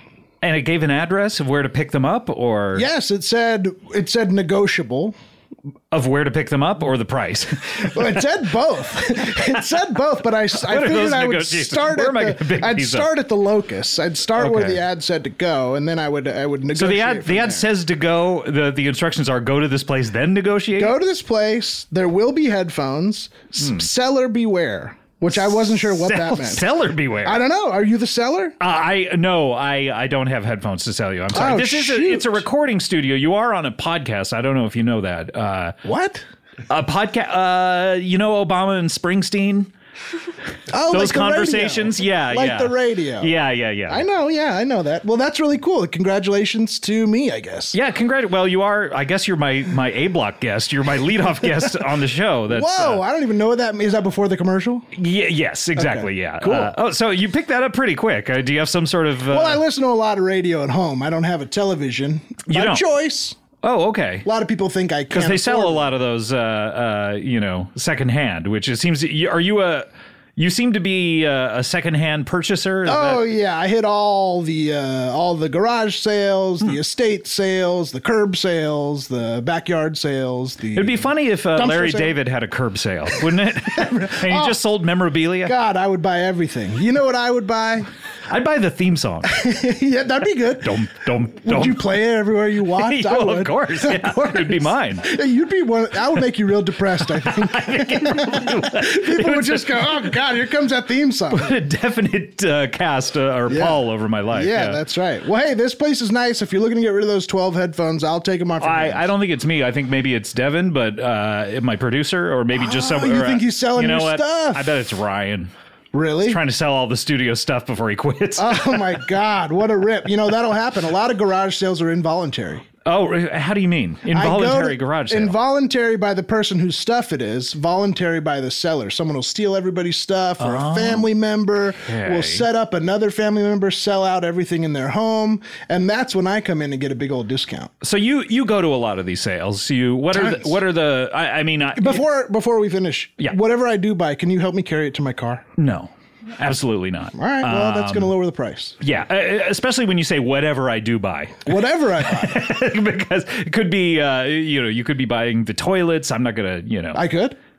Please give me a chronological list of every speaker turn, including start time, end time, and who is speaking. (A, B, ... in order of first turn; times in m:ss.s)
0:00.4-0:02.9 A
0:02.7-0:05.1 B
0:05.9-0:08.0 A
0:07.8-0:17.7 B
0:10.5-0:13.1 A
0:14.4-0:14.8 A
0:16.8-0:21.0 A
0:20.7-0:26.7 B
0:23.6-0:23.8 A
0:25.7-0:27.4 A
0:27.2-0:28.5 B
0:28.6-0:35.8 A
0:31.3-0:32.4 B
0:35.8-0:36.2 B
0:36.7-0:39.7 A
0:40.7-0:43.3 B
0:40.9-0:44.0 A
0:43.9-0:47.8 B
0:47.7-0:53.0 A
0:52.5-0:54.9 B
0:54.9-0:59.6 A
0:55.8-0:56.7 B
0:59.3-1:03.4 B
1:02.4-1:02.8 A
1:03.6-1:04.3 A
1:04.2-1:05.9 B
1:05.1-1:13.2 A
1:12.8-1:22.2 B
1:20.7-1:25.5 A
1:23.7-1:24.6 B
1:25.4-1:27.9 B
1:28.3-1:29.4 A
1:29.2-1:30.8 B
1:30.6-1:31.9 A
1:31.4-1:41.5 B
1:32.7-1:35.1 A
1:37.1-1:40.1 A
1:41.3-1:44.8 A
1:43.5-1:49.1 B
1:48.6-1:55.5 A
1:52.5-1:54.7 B
1:55.9-1:56.4 B
1:56.2-1:59.0 A
1:58.4-2:02.6 B
2:02.8-2:05.3 A
2:04.1-2:17.7 B
2:10.4-2:11.1 A
2:11.8-2:12.5 A
2:17.8-2:22.0 A
2:20.1-2:20.6 B
2:21.8-2:25.4 B
2:25.6-2:28.1 A
2:27.1-2:28.8 B
2:28.8-2:37.0 A
2:31.4-2:32.4 B
2:36.9-2:37.4 B